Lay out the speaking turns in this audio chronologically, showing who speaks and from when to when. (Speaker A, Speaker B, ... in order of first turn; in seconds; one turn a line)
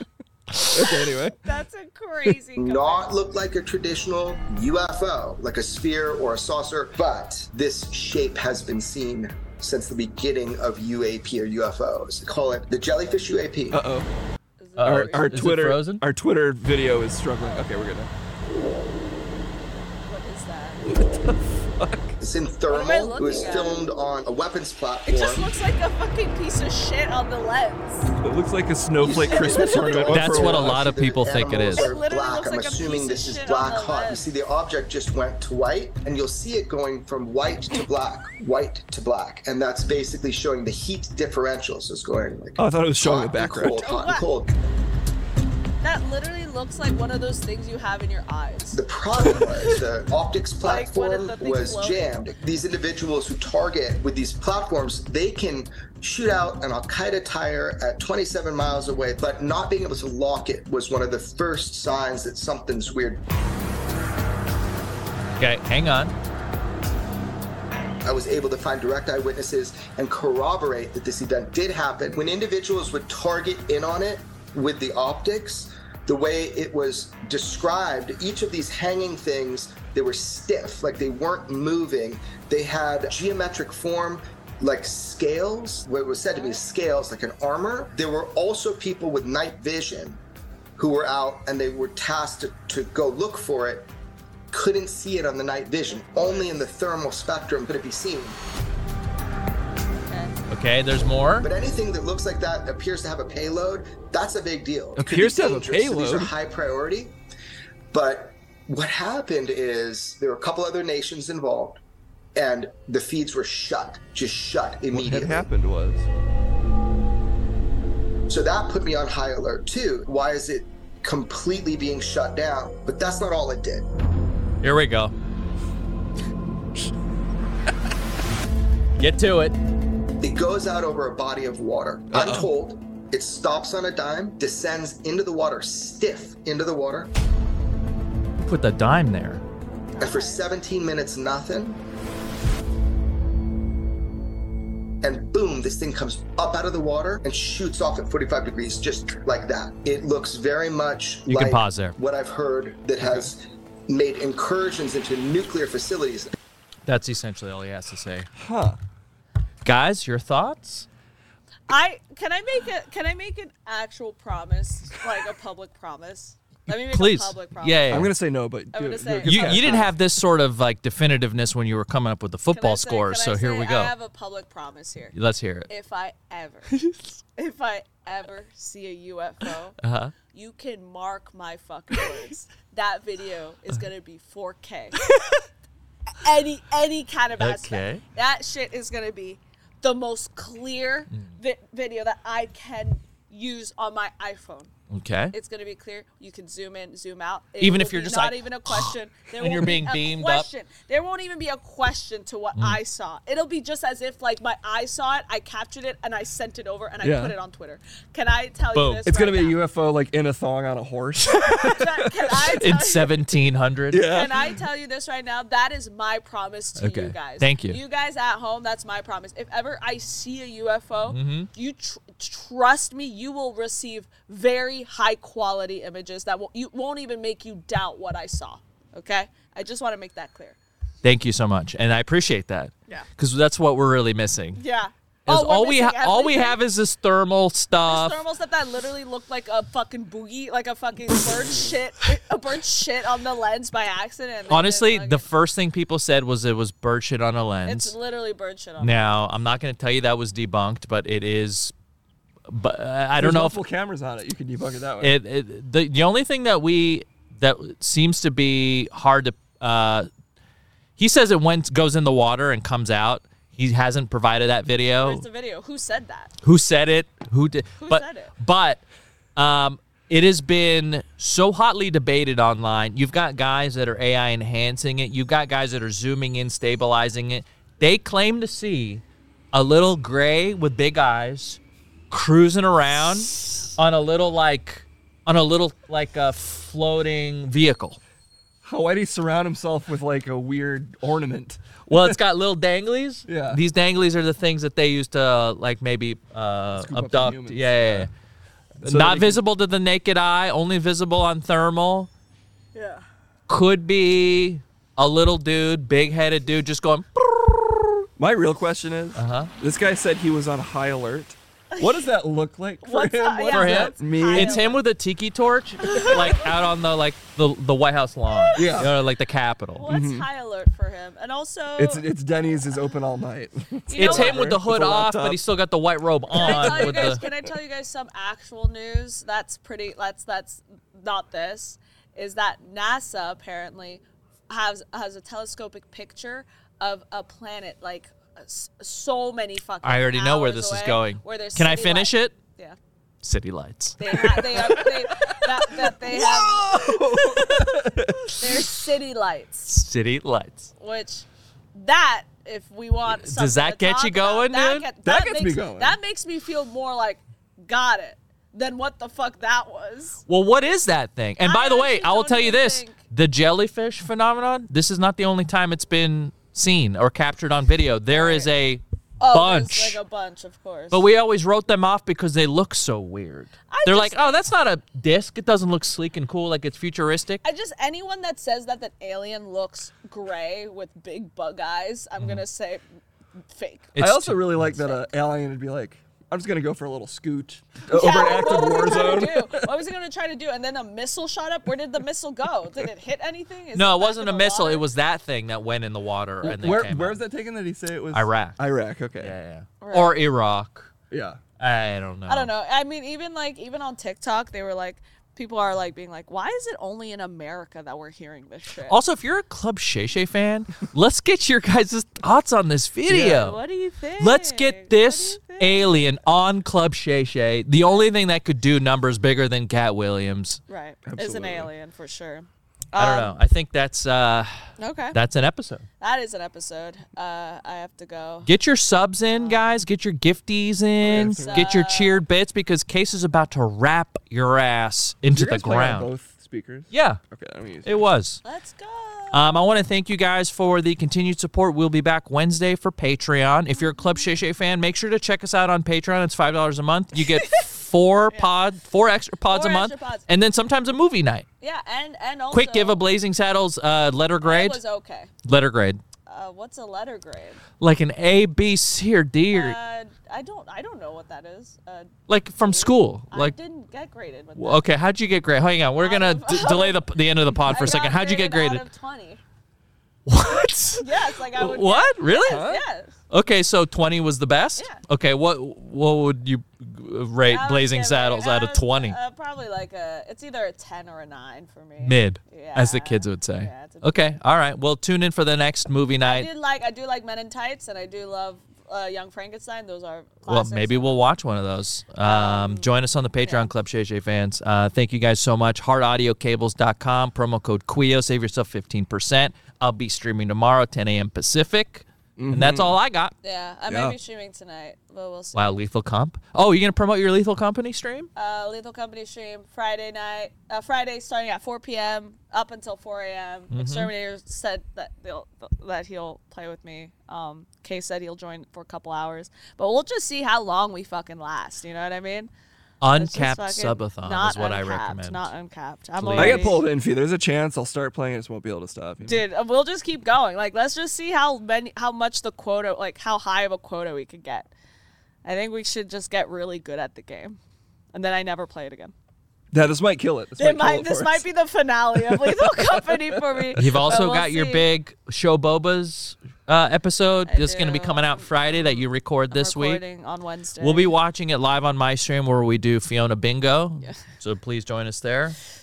Speaker A: 0.7-1.4
Speaker B: 1.4-3.1
Speaker C: 2.6-13.8
Speaker A: 13.7-14.1
Speaker B: 14.6-15.6
Speaker D: 14.8-16.1
Speaker A: 14.8-18.1
Speaker B: 17.4-17.9
Speaker B: 20.1-20.9
Speaker A: 20.9-22.2
Speaker C: 22.2-25.5
Speaker B: 22.7-23.9
Speaker B: 25.1-28.1
Speaker A: 28.2-30.8
Speaker C: 29.0-44.5
Speaker B: 29.2-30.1
Speaker D: 30.1-31.9
Speaker B: 31.8-34.3
Speaker A: 42.6-43.9
Speaker B: 43.8-44.3
Speaker B: 45.8-49.5
Speaker C: 48.7-63.2
Speaker B: 50.6-52.1
Speaker D: 65.4-66.1
Speaker C: 68.0-90.2
Speaker B: 86.2-86.6
Speaker C: 90.8-93.9
Speaker C: 94.5-98.4
Speaker B: 95.9-96.4
Speaker B: 100.1-100.4
Speaker D: 100.5-101.5
Speaker C: 101.4-107.2
Speaker A: 105.0-106.3
Speaker C: 107.9-111.8
Speaker C: 112.4-115.5
Speaker A: 114.9-116.1
Speaker C: 118.3-123.9
Speaker D: 124.6-125.1
Speaker D: 129.0-129.6
Speaker C: 130.2-137.1
Speaker A: 132.1-132.5
Speaker D: 138.4-139.4
Speaker B: 139.8-140.4
Speaker C: 140.0-141.8
Speaker C: 145.0-156.3
Speaker D: 151.3-152.0
Speaker D: 156.9-158.3
Speaker A: 158.4-158.8
Speaker D: 159.6-160.9
Speaker B: 161.7-168.1
Speaker D: 166.7-168.1
Speaker A: 167.9-169.9
Speaker B: 168.7-169.9
Speaker D: 169.3-173.9
Speaker B: 172.5-175.1
Speaker D: 175.1-175.7
Speaker B: 175.7-176.8
Speaker B: 177.4-179.8
Speaker D: 179.8-180.1
Speaker B: 180.3-185.1
Speaker B: 186.1-194.7
Speaker D: 187.4-188.0
Speaker D: 194.9-195.3
Speaker B: 195.3-209.6
Speaker D: 197.6-200.5
Speaker A: 207.0-207.3
Speaker D: 208.7-209.1
Speaker A: 209.1-212.3
Speaker B: 211.4-213.1
Speaker D: 212.4-214.1
Speaker A: 213.9-214.5
Speaker B: 214.0-230.6
Speaker D: 216.8-217.8
Speaker D: 221.1-221.5
Speaker D: 231.0-234.6
Speaker B: 234.6-236.6
Speaker D: 235.3-238.2
Speaker B: 237.8-245.2
Speaker D: 244.5-247.9
Speaker B: 247.7-249.2
Speaker D: 248.8-251.7
Speaker D: 252.5-253.6
Speaker A: 253.2-255.2
Speaker D: 255.0-260.1
Speaker D: 261.0-265.2
Speaker B: 265.0-266.3
Speaker D: 266.4-268.8
Speaker B: 267.8-268.3
Speaker D: 269.4-281.6
Speaker D: 282.1-288.0
Speaker A: 288.6-292.2
Speaker D: 291.9-298.1
Speaker A: 293.3-293.6
Speaker A: 296.8-298.1
Speaker D: 298.8-302.1
Speaker A: 298.8-299.4
Speaker B: 302.7-303.1
Speaker D: 303.5-307.1
Speaker A: 308.2-314.7
Speaker D: 309.2-309.5
Speaker B: 312.8-314.8
Speaker D: 313.5-319.9
Speaker B: 315.8-316.5
Speaker B: 318.3-318.9
Speaker A: 318.6-318.9
Speaker B: 319.8-322.1
Speaker A: 319.9-320.2
Speaker A: 321.8-325.4
Speaker B: 323.9-324.6
Speaker D: 323.9-327.2
Speaker A: 326.3-327.4
Speaker B: 326.4-342.8
Speaker D: 339.8-342.4
Speaker D: 343.2-344.8
Speaker B: 344.0-347.7
Speaker A: 344.4-348.5
Speaker B: 348.4-349.7
Speaker D: 349.7-350.7
Speaker B: 350.8-360.2
Speaker D: 353.1-354.9
Speaker A: 355.1-356.0
Speaker D: 360.3-370.0
Speaker B: 361.4-363.0
Speaker B: 368.1-368.5
Speaker B: 369.2-371.0
Speaker D: 370.9-377.4
Speaker B: 373.7-374.4
Speaker B: 377.4-382.8
Speaker B: 383.5-383.9
Speaker D: 384.0-384.8
Speaker A: 384.0-389.7
Speaker B: 387.9-394.9
Speaker D: 388.6-389.1
Speaker D: 393.8-397.2
Speaker A: 396.4-399.4
Speaker D: 398.1-398.6
Speaker D: 399.2-400.9
Speaker B: 399.8-400.2
Speaker A: 401.1-401.4
Speaker D: 401.6-402.5
Speaker B: 402.3-409.0
Speaker D: 408.9-413.6
Speaker A: 413.1-413.4
Speaker B: 413.2-416.0
Speaker D: 414.2-420.6
Speaker B: 417.8-418.1
Speaker B: 420.7-423.4
Speaker A: 421.1-421.7
Speaker D: 423.0-424.5
Speaker B: 424.8-425.2
Speaker D: 425.1-425.9
Speaker B: 426.0-428.5
Speaker D: 428.5-436.1
Speaker B: 429.3-429.8
Speaker A: 431.0-431.8
Speaker B: 431.1-432.2
Speaker A: 435.3-438.1
Speaker D: 436.9-437.2
Speaker D: 437.9-438.4
Speaker B: 438.4-439.6
Speaker D: 439.3-451.5
Speaker B: 449.5-450.3
Speaker B: 451.6-453.0
Speaker D: 452.5-454.8
Speaker B: 454.4-455.3
Speaker D: 455.4-456.0
Speaker B: 456.3-457.6
Speaker D: 457.8-459.8
Speaker B: 459.5-464.9
Speaker D: 462.3-463.6
Speaker D: 464.6-468.8
Speaker B: 466.0-469.4
Speaker D: 470.3-472.8
Speaker B: 471.0-473.1
Speaker A: 472.5-472.8
Speaker D: 473.3-479.2
Speaker B: 477.5-484.3
Speaker D: 482.0-486.5
Speaker B: 486.2-491.2
Speaker D: 490.5-503.4
Speaker B: 492.2-492.9
Speaker B: 493.4-493.7
Speaker A: 502.4-503.0
Speaker B: 503.4-505.8
Speaker A: 503.9-504.1
Speaker D: 505.6-508.3
Speaker B: 508.4-522.5
Speaker D: 513.7-514.1
Speaker D: 523.0-525.5
Speaker B: 523.1-526.8
Speaker D: 526.2-526.8
Speaker A: 526.4-529.5
Speaker B: 529.2-534.7
Speaker B: 535.4-537.6
Speaker B: 538.1-539.1
Speaker A: 539.7-541.5
Speaker B: 540.6-544.9
Speaker A: 542.1-544.0
Speaker D: 543.8-550.0
Speaker B: 547.5-551.1
Speaker D: 550.8-555.6